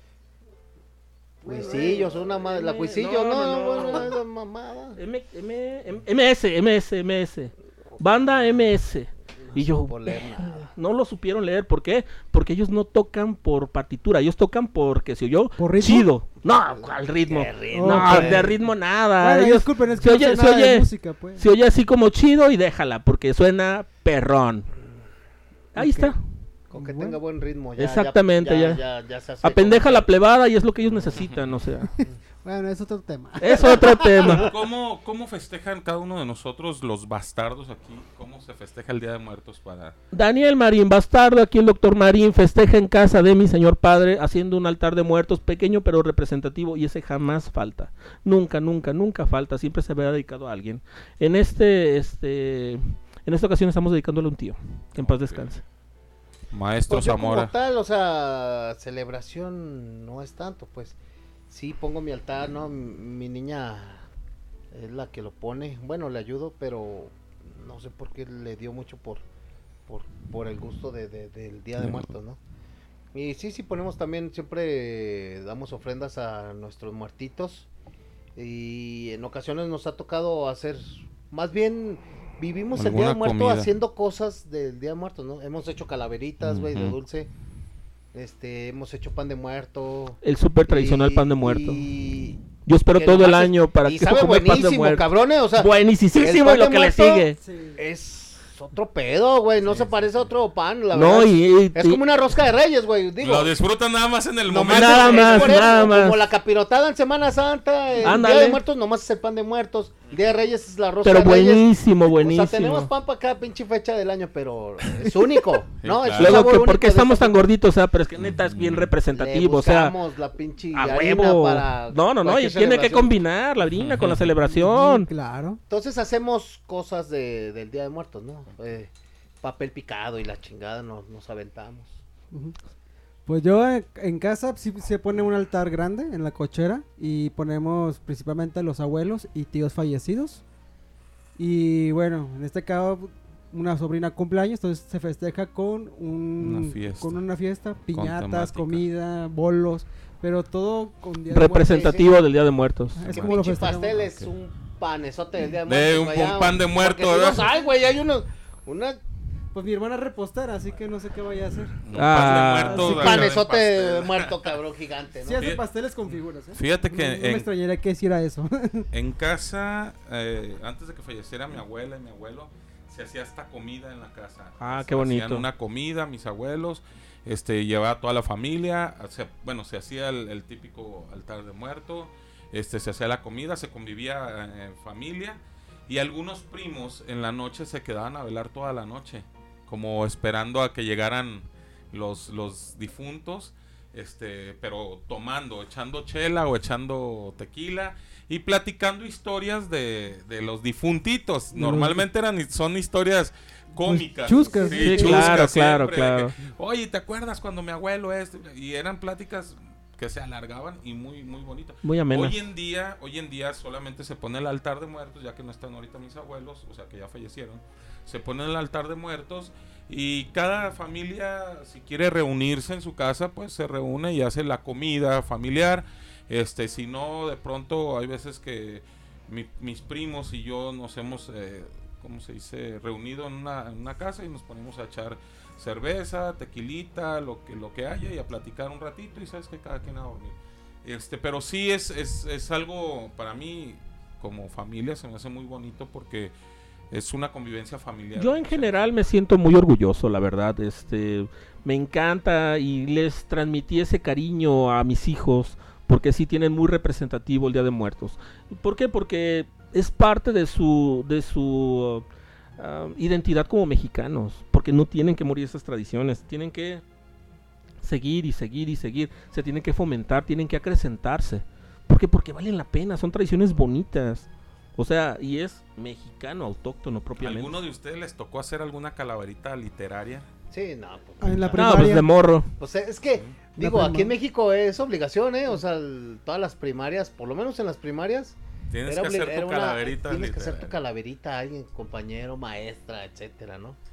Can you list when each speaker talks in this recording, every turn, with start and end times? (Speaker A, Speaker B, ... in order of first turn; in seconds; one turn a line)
Speaker A: 1.4-5.0
Speaker B: 1.4-4.1
Speaker B: 5.0-24.7
Speaker A: 9.5-10.7
Speaker C: 15.6-16.1
Speaker A: 16.7-18.5
Speaker C: 17.7-18.5
Speaker C: 19.2-21.4
Speaker B: 25.7-26.2
Speaker C: 25.8-26.1
Speaker A: 26.7-30.1
Speaker C: 26.7-27.2
Speaker B: 27.8-28.8
Speaker B: 29.4-31.9
Speaker C: 32.4-33.8
Speaker B: 33.4-34.5
Speaker A: 33.7-34.5
Speaker D: 34.3-39.9
Speaker B: 40.1-55.6
Speaker D: 55.0-55.4
Speaker D: 56.5-57.5
Speaker A: 56.9-61.0
Speaker A: 61.5-64.0
Speaker A: 64.7-69.2
Speaker A: 69.9-72.4
Speaker D: 71.8-72.1
Speaker A: 73.1-77.7
Speaker A: 78.3-87.3
Speaker D: 82.7-83.7
Speaker D: 86.4-87.0
Speaker A: 88.1-97.2
Speaker B: 90.2-91.8
Speaker B: 92.7-95.0
Speaker B: 95.5-97.4
Speaker C: 97.4-97.8
Speaker A: 97.8-103.5
Speaker D: 99.6-100.2
Speaker B: 100.9-102.0
Speaker D: 103.2-105.8
Speaker A: 104.5-117.5
Speaker B: 104.6-106.2
Speaker B: 108.0-108.6
Speaker B: 111.0-112.9
Speaker D: 115.8-116.5
Speaker B: 116.2-119.9
Speaker D: 118.2-118.9
Speaker A: 119.1-123.2
Speaker B: 120.7-125.1
Speaker D: 123.8-124.3
Speaker C: 124.5-125.6
Speaker A: 125.7-128.9
Speaker A: 129.4-132.0
Speaker C: 133.3-140.4
Speaker C: 141.4-152.1
Speaker D: 146.4-147.2
Speaker D: 147.9-148.8
Speaker B: 151.3-153.0
Speaker A: 151.6-152.1
Speaker C: 152.9-154.0
Speaker D: 153.0-153.3
Speaker A: 153.1-159.0
Speaker D: 154.0-154.3
Speaker D: 155.6-157.5
Speaker C: 159.5-163.3
Speaker D: 161.8-164.5
Speaker B: 161.9-163.0
Speaker A: 162.7-165.5
Speaker C: 165.2-168.9
Speaker D: 166.5-167.5
Speaker D: 168.9-246.3
Speaker B: 174.6-175.4
Speaker C: 201.5-202.0
Speaker C: 203.8-205.3
Speaker B: 204.7-206.3
Speaker B: 211.8-212.3
Speaker D: 246.9-248.8
Speaker B: 248.2-262.1
Speaker B: 262.6-266.8
Speaker B: 267.8-277.5
Speaker D: 277.2-280.2
Speaker A: 280.5-282.0
Speaker C: 281.2-282.1
Speaker B: 281.5-282.5
Speaker A: 282.6-293.8
Speaker C: 283.6-284.1
Speaker D: 288.7-290.8